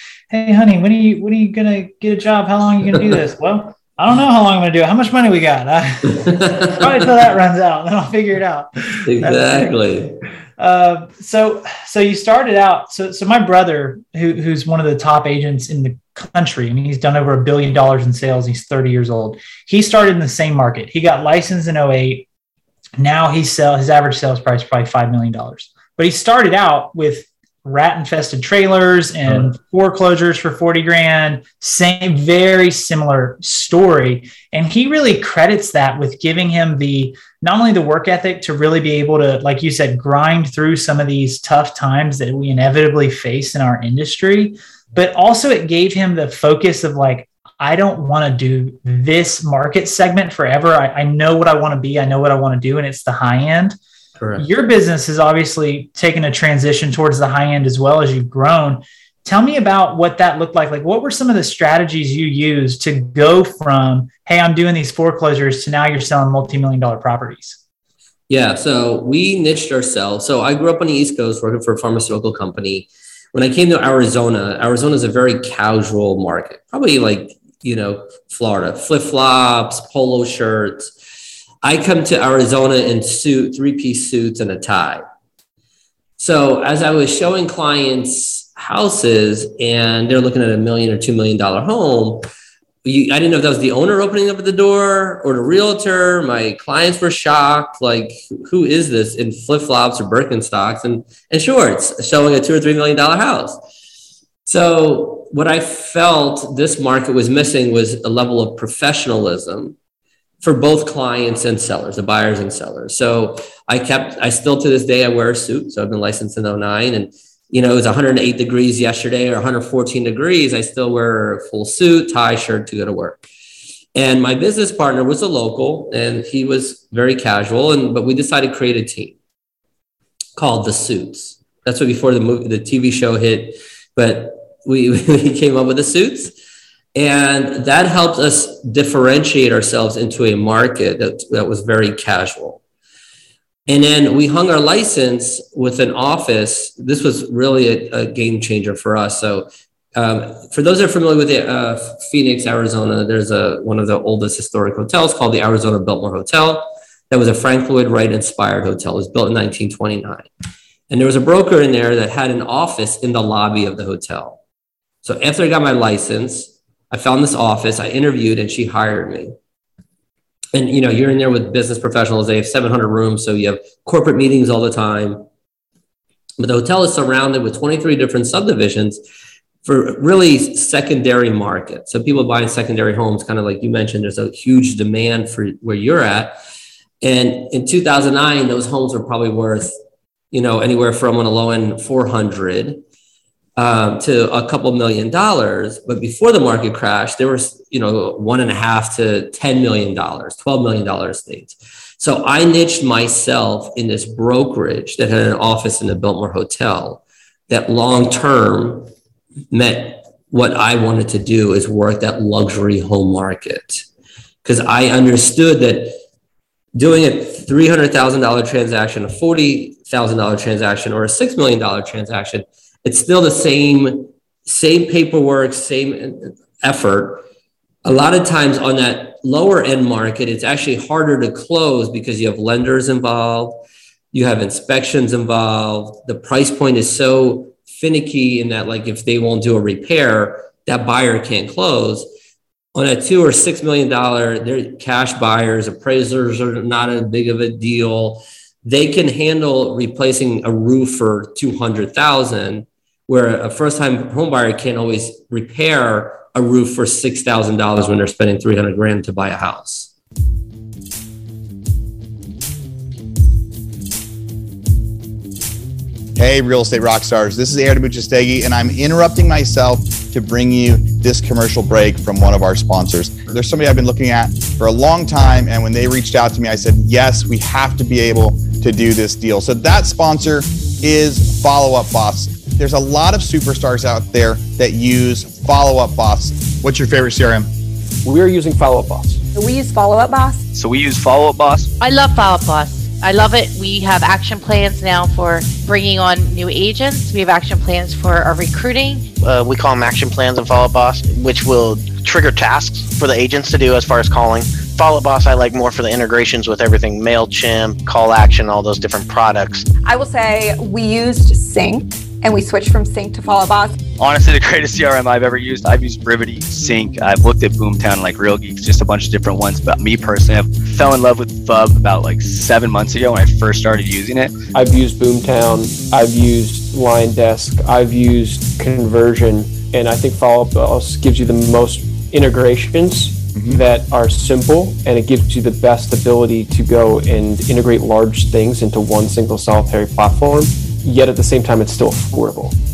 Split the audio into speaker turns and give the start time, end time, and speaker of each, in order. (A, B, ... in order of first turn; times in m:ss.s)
0:00.3-0:22.3 A
0:06.3-0:06.7 B
0:09.0-0:10.1 B
0:23.0-0:53.8 A
0:54.2-0:54.5 B
0:54.4-1:07.6 A
1:08.3-1:20.9 B
1:21.6-1:25.0 B
1:26.2-1:32.3 B
1:32.8-1:43.6 B
1:44.4-1:49.8 B
1:50.4-2:03.2 B
2:04.0-2:09.2 B
2:10.4-2:16.3 B
2:17.0-2:22.6 B
2:23.7-2:40.3 B
2:40.9-2:44.4 B
2:45.0-2:49.3 B
2:50.5-2:55.3 B
2:56.4-2:59.0 B
2:59.6-3:06.4 B
3:07.0-3:09.7 B
3:10.3-3:12.8 B
3:13.6-3:28.9 B
3:29.5-3:33.8 B
3:34.4-3:36.0 B
3:36.8-3:47.2 B
3:47.8-4:02.1 B
4:02.8-4:19.9 B
4:26.2-4:47.5 C
4:48.0-4:49.2 D
4:49.4-4:50.4 E
4:50.6-4:51.7 F
4:51.8-4:59.1 G
4:59.2-5:09.7 H
5:09.8-5:13.8 E
5:14.0-5:24.4 F
5:24.5-5:42.6 D
5:33.4-5:33.6 C